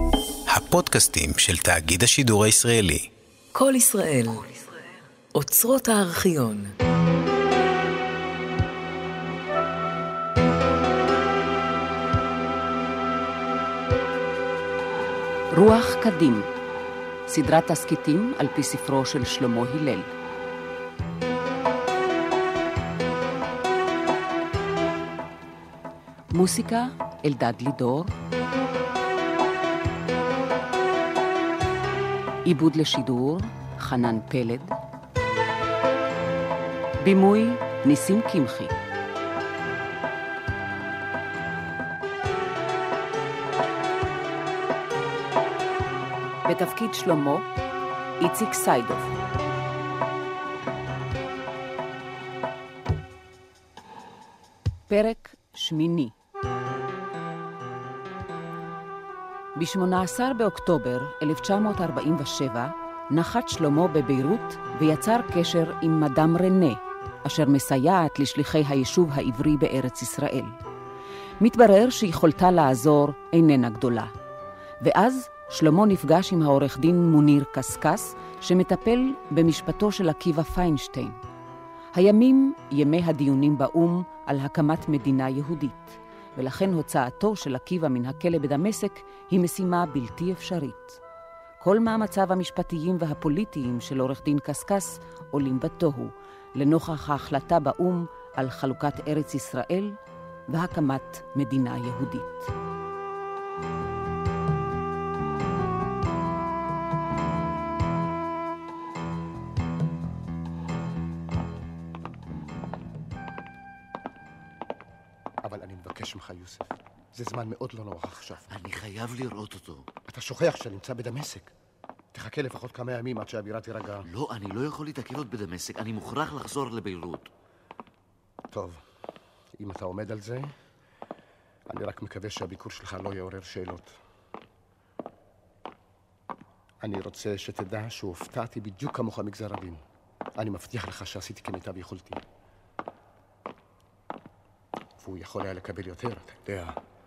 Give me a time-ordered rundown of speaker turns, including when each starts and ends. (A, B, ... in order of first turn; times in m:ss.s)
0:00.5-0:03.1 A
0:03.5-0:04.6 B
0:05.3-0:06.7 B
0:15.5-0:16.5 C
0:17.3-0:20.1 C
0:26.3-0:28.2 C
0:32.4-0:34.7 C
0:37.0-0:38.7 C
0:46.5-0:47.5 C
0:48.2-0:49.1 C
0:54.9-0:56.1 C
0:59.6-1:10.6 C
1:11.4-1:14.1 C
1:14.8-1:21.2 C
1:21.9-1:31.0 C
1:31.6-1:40.0 C
1:40.5-1:42.5 C
1:55.4-1:58.5 D
1:58.5-1:59.9 E
2:00.1-2:01.5 D
2:02.1-2:04.1 D
2:04.1-2:07.3 E
2:08.5-2:08.8 D
2:09.6-2:10.5 D
2:11.7-2:13.9 D
2:16.8-2:19.8 D
2:20.4-2:22.2 D
2:25.0-2:26.8 D